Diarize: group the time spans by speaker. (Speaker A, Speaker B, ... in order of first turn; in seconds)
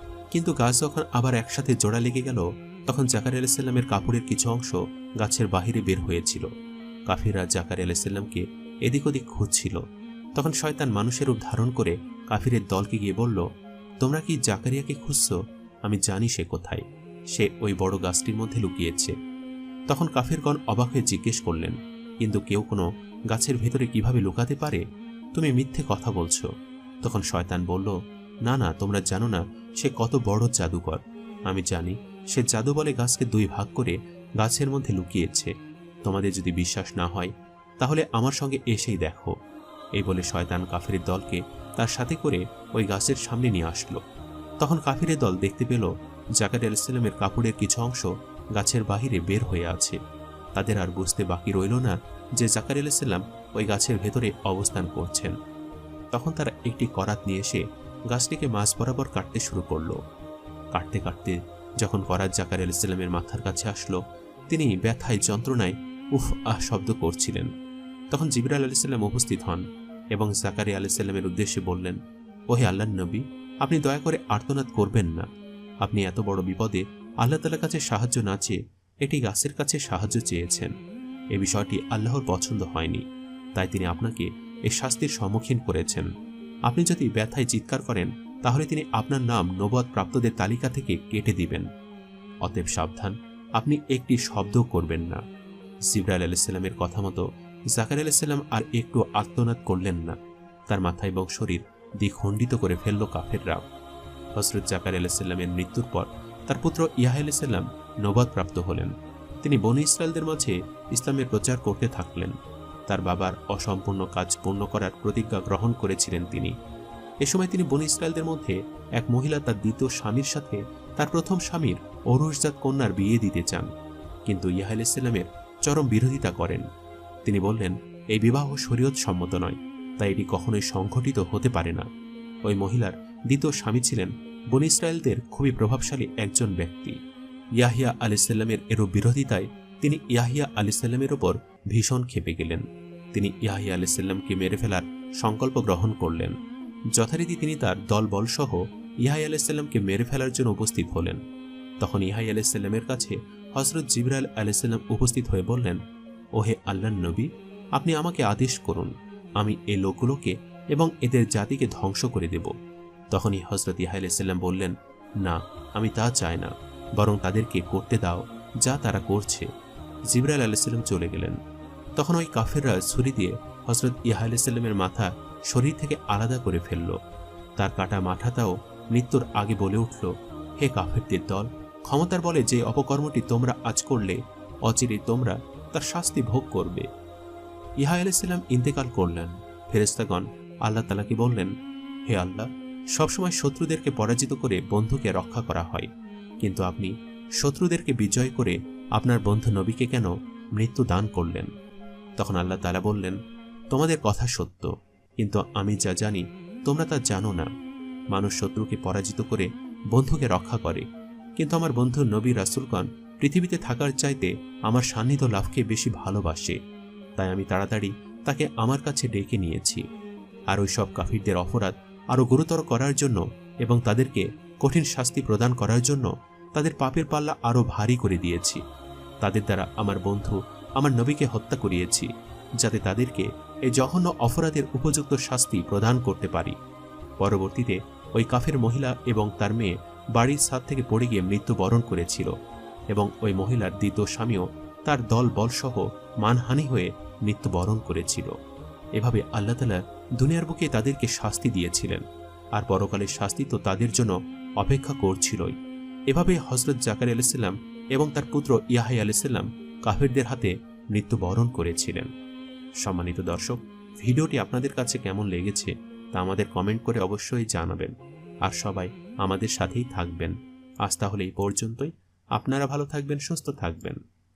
Speaker A: 0.3-6.5, 7.1-9.8, 10.4-13.5, 14.0-16.8, 17.4-19.1, 19.9-24.8, 25.4-26.5, 27.0-35.5, 36.0-39.4, 40.0-44.0, 44.6-50.0, 50.6-55.4, 56.1-60.0, 60.8-64.0, 64.5-67.5, 68.1-69.6, 70.1-72.0, 72.5-75.3, 75.8-80.7, 81.3-83.0, 83.6-86.1, 86.7-91.7, 92.4-95.2, 95.9-100.2, 100.7-103.6, 104.4-112.4, 112.9-116.5, 117.2-123.7, 124.3-126.7, 127.3-131.9, 132.5-137.0, 137.6-146.4, 146.9-151.2, 151.8-155.8, 156.4-162.5, 163.1-169.5, 170.1-171.4, 172.0-177.0, 177.6-186.9, 187.8-191.5, 192.1-195.9, 196.4-201.5, 202.2-203.2, 203.7-207.5, 208.1-210.8, 211.4-216.6, 217.2-219.8, 220.5-228.6, 229.2-236.6, 237.2-242.3, 242.9-248.3, 249.0-252.0, 252.6-255.6, 256.1-262.1, 262.8-267.9, 268.4-274.0